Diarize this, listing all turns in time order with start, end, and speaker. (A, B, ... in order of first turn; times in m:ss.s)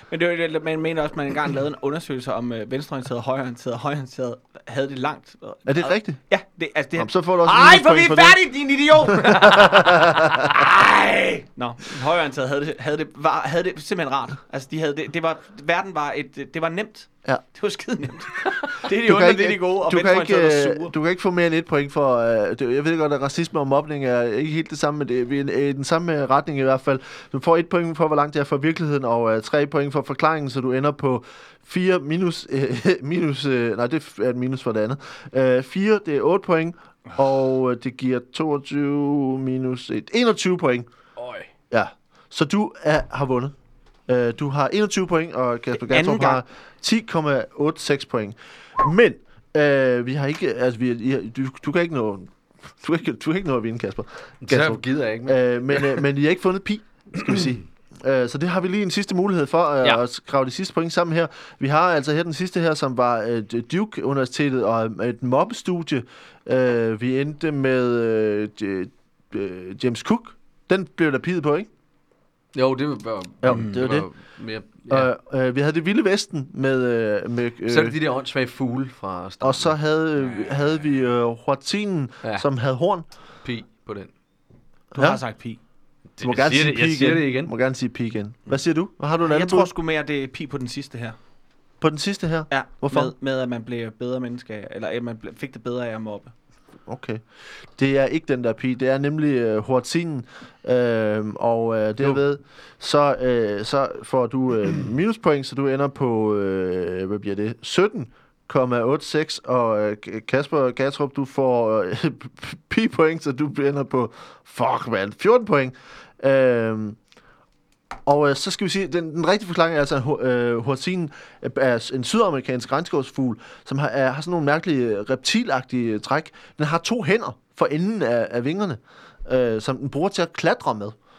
0:00.1-0:20.9 A
0:05.6-0:06.2 B
0:07.0-0:08.4 B
0:09.3-0:10.6 B
0:19.0-0:40.9 B
0:41.2-0:41.5 C
0:41.7-0:43.6 B
0:44.1-1:11.7 B
0:45.9-0:46.4 A
0:54.4-0:56.0 C
0:57.2-0:57.5 C
1:12.5-1:15.1 C
1:13.4-1:14.1 B
1:14.9-1:18.0 B
1:17.6-1:19.8 C
1:19.4-1:23.0 B
1:23.4-1:24.1 C
1:24.9-1:25.6 A
1:24.9-1:25.2 B
1:26.2-1:27.5 C
1:26.2-1:29.7 B
1:29.2-1:31.2 A
1:31.8-1:33.1 B
1:32.5-1:36.3 A
1:36.9-1:57.0 B
1:58.0-2:11.0 B